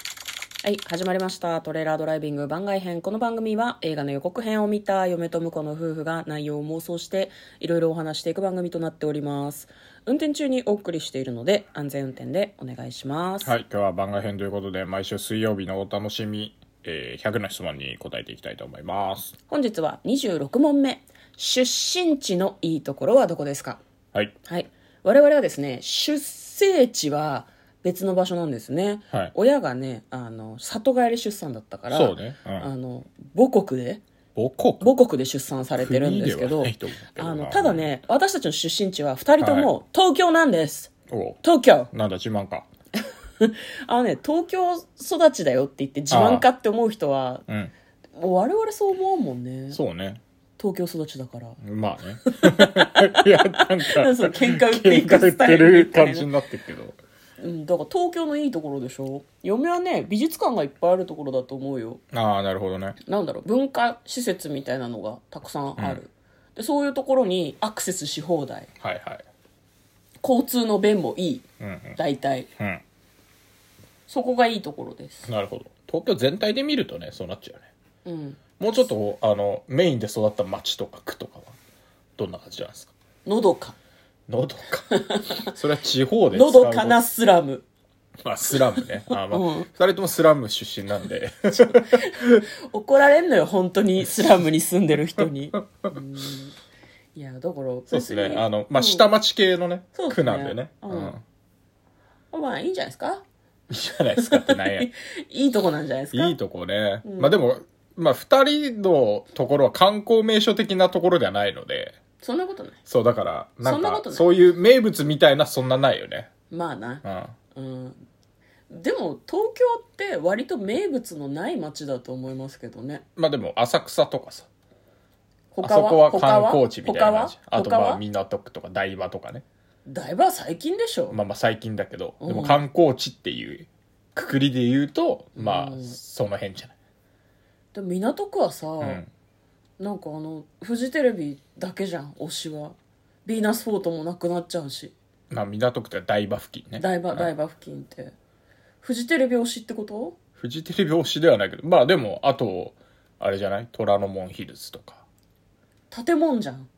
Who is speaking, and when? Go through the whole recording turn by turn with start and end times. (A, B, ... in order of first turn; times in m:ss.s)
0:00.6-0:13.5 A
0:13.4-0:19.4 B
0:19.5-0:23.8 A
0:24.4-0:34.0 A
0:31.9-0:32.7 B
0:34.4-0:34.9 B
0:34.8-0:40.9 A
0:35.8-0:37.9 B
0:39.4-0:39.7 B
0:41.1-0:41.4 B
0:41.4-0:41.9 A
0:41.9-0:42.7 B
0:43.4-0:47.4 A
0:46.1-0:46.5 B
0:47.5-0:47.7 B
0:48.2-0:49.8 A
0:49.7-0:50.2 B
0:50.6-0:51.6 A
0:51.6-0:57.0 B
0:52.2-0:56.3 A
0:57.4-1:02.0 A
1:02.1-1:03.0 B
1:03.0-1:08.7 A
1:05.8-1:06.0 B
1:08.8-1:09.2 B
1:10.2-1:11.4 A
1:11.6-1:12.0 B
1:12.0-1:12.5 A
1:14.1-1:15.3 A
1:15.3-1:17.7 B
1:18.0-1:18.4 A
1:18.6-1:21.6 B
1:22.2-1:22.9 B
1:23.2-1:23.8 A
1:24.3-1:27.0 B
1:24.9-1:25.5 A
1:26.3-1:27.7 A
1:28.2-1:32.4 B
1:29.1-1:29.7 A
1:31.8-1:36.6 A
1:37.2-1:39.0 A
1:37.9-1:41.2 B
1:39.9-1:41.2 A
1:42.3-1:43.2 A
1:43.7-1:44.9 B
1:44.2-1:46.4 A
1:46.1-1:52.0 B
1:47.0-1:47.4 A
1:52.2-1:52.8 A
1:52.9-1:56.3 B
1:53.6-1:54.3 A
1:56.5-1:58.0 A
1:57.0-1:57.3 B
1:58.7-2:03.0 A
2:03.2-2:04.5 B
2:05.5-2:08.0 A
2:05.6-2:09.4 B
2:09.9-2:11.2 A
2:11.1-2:16.7 B
2:12.2-2:12.6 A
2:15.4-2:16.0 A
2:17.7-2:19.0 A
2:18.8-2:19.1 B
2:19.8-2:25.0 A
2:25.3-2:27.3 B
2:26.8-2:28.1 A
2:28.8-2:30.2 A
2:30.4-2:35.0 B
2:35.9-2:36.7 A